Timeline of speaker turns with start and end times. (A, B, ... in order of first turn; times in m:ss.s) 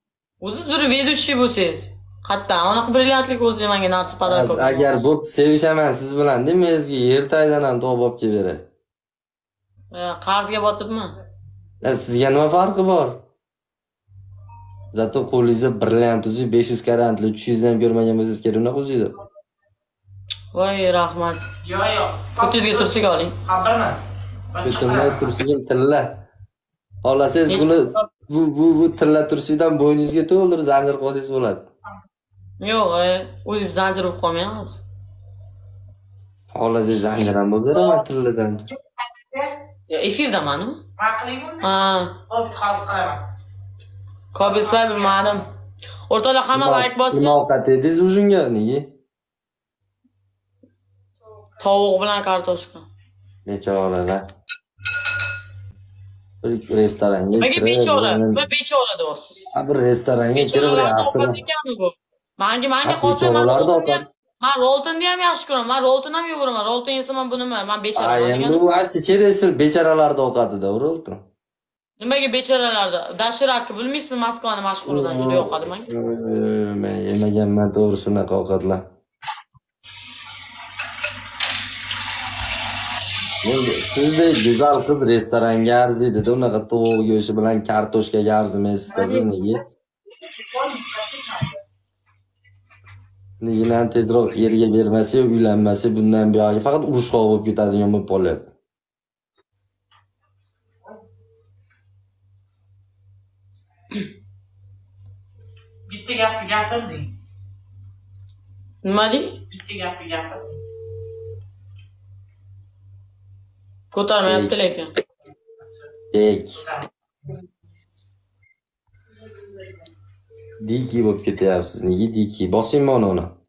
0:00.4-0:05.0 A
0:04.2-0:08.6 B
0:09.9-0:11.1 A
0:11.8-0:13.2 B
0:14.9-0:19.1 B
0:20.5-0:21.4 A
0:21.6-0:25.3 C
0:22.4-0:23.3 A
0:24.6-0:26.2 B
0:27.0-0:31.7 B
0:27.5-0:28.1 A
0:32.6-0:34.8 A
0:36.5-0:38.7 B
0:37.7-0:38.0 C
0:38.7-0:39.6 C
0:39.9-0:40.8 A
0:41.0-0:41.7 C
0:41.6-0:42.1 A
0:42.3-0:43.3 C
0:44.3-0:45.5 A
0:44.4-0:45.3 C
0:46.1-0:47.4 A
0:46.5-0:48.9 B
0:51.6-0:52.9 A
0:53.4-0:54.2 B
0:56.4-0:58.4 B
0:57.4-0:59.4 A
0:59.5-1:01.4 B
1:00.3-1:08.6 A
1:02.8-1:04.0 B
1:08.0-1:11.2 B
1:12.0-1:15.9 A
1:14.8-1:18.8 B
1:23.4-1:29.6 B
1:28.9-1:29.2 C
1:30.1-1:31.6 C
1:33.4-1:38.5 B
1:45.9-1:47.1 C
1:48.8-1:49.4 A
1:49.5-1:50.6 C
1:53.9-1:54.9 A
1:54.2-1:54.6 B
1:56.1-1:56.6 B
1:56.5-1:56.9 C
2:00.6-2:03.3 B